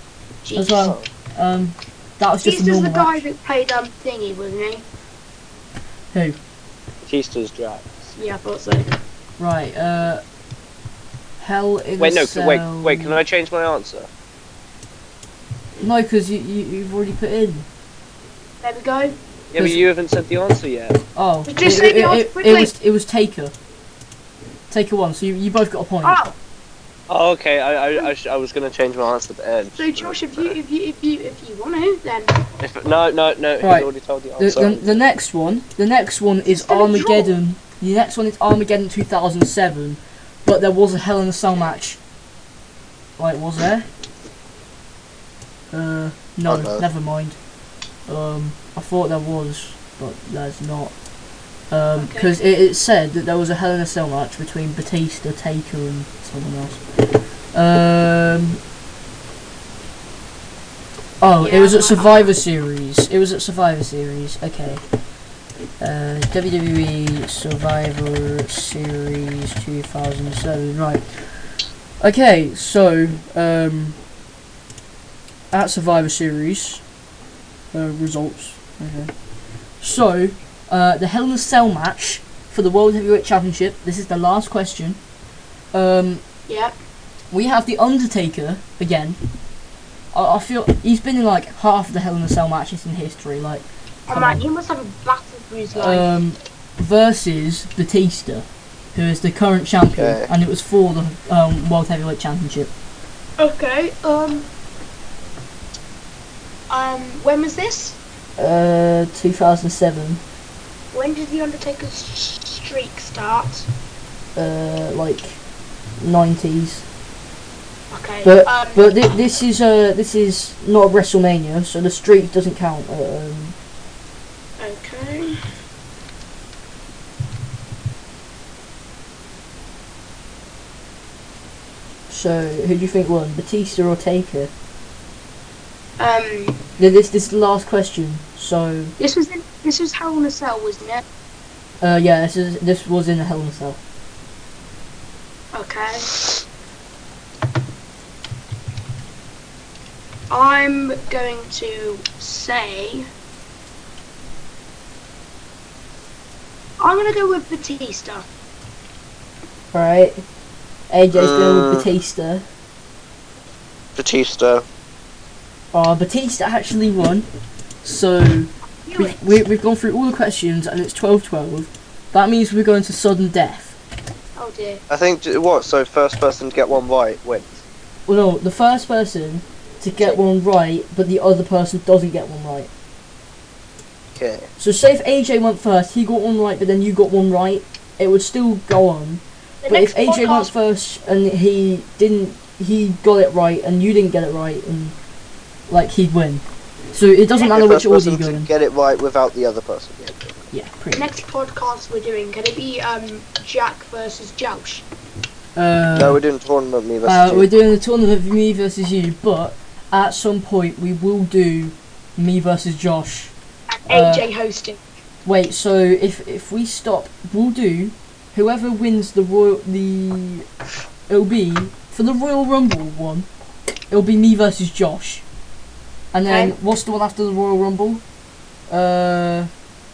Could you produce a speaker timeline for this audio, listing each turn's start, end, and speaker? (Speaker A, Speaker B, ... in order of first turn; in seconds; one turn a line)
Speaker A: 0.4-1.0
Speaker B: 0.6-3.3
Speaker A: 2.4-4.8
Speaker C: 7.0-8.1
Speaker A: 8.2-8.9
Speaker B: 9.4-10.2
Speaker B: 11.4-13.2
Speaker C: 12.0-14.1
Speaker B: 15.8-17.7
Speaker A: 18.6-19.2
Speaker C: 19.5-21.0
Speaker B: 21.1-23.5
Speaker A: 21.5-22.7
Speaker B: 24.7-26.2
Speaker A: 26.0-26.4
Speaker C: 27.1-30.6
Speaker A: 29.8-32.4
Speaker C: 32.6-35.0
Speaker B: 33.6-42.0
Speaker A: 36.5-37.3
Speaker B: 43.2-43.9
Speaker B: 45.7-47.4
Speaker C: 46.5-46.9
Speaker B: 48.1-50.9
Speaker B: 51.7-56.8
Speaker A: 52.0-52.3
Speaker B: 57.5-58.6
Speaker B: 61.2-64.8
Speaker A: 61.4-62.3
Speaker B: 65.8-71.0
Speaker B: 72.0-74.0
Speaker B: 75.5-76.8
Speaker B: 77.7-79.1
Speaker B: 79.8-85.0
Speaker B: 85.7-86.2
Speaker A: 86.5-86.8
Speaker B: 87.3-89.2
Speaker B: 90.1-94.4
Speaker A: 94.1-96.1
Speaker B: 95.8-102.7
Speaker C: 100.0-100.3
Speaker A: 103.4-104.5
Speaker A: 106.7-108.0
Speaker B: 108.4-110.2
Speaker A: 110.9-113.7
Speaker B: 114.4-115.4
Speaker B: 116.0-116.8
Speaker A: 117.9-118.9
Speaker B: 118.2-123.6
Speaker A: 124.6-125.4
Speaker B: 132.1-134.5
Speaker A: 136.0-136.6
Speaker B: 136.8-138.9
Speaker A: 139.0-141.0
Speaker B: 141.8-143.8
Speaker A: 145.5-146.3
Speaker A: 150.3-153.1
Speaker A: 156.8-158.3
Speaker B: 159.7-160.2
Speaker B: 160.9-162.4
Speaker C: 161.2-161.9
Speaker C: 164.0-164.7
Speaker B: 165.7-167.3
Speaker B: 167.8-173.8
Speaker A: 168.8-169.4
Speaker A: 174.4-174.8
Speaker C: 174.9-177.6
Speaker B: 178.1-182.7
Speaker C: 184.2-184.5
Speaker B: 184.6-194.9
Speaker A: 189.6-190.5
Speaker B: 195.7-198.5
Speaker C: 197.4-200.2
Speaker B: 200.5-201.1
Speaker A: 200.9-204.9
Speaker B: 205.6-206.2
Speaker C: 205.9-207.5
Speaker B: 207.1-213.3
Speaker A: 213.8-214.8
Speaker B: 213.9-214.3
Speaker B: 215.3-220.4
Speaker B: 221.1-223.3
Speaker B: 223.9-225.2
Speaker B: 226.1-228.0
Speaker A: 226.3-226.5
Speaker B: 228.7-229.5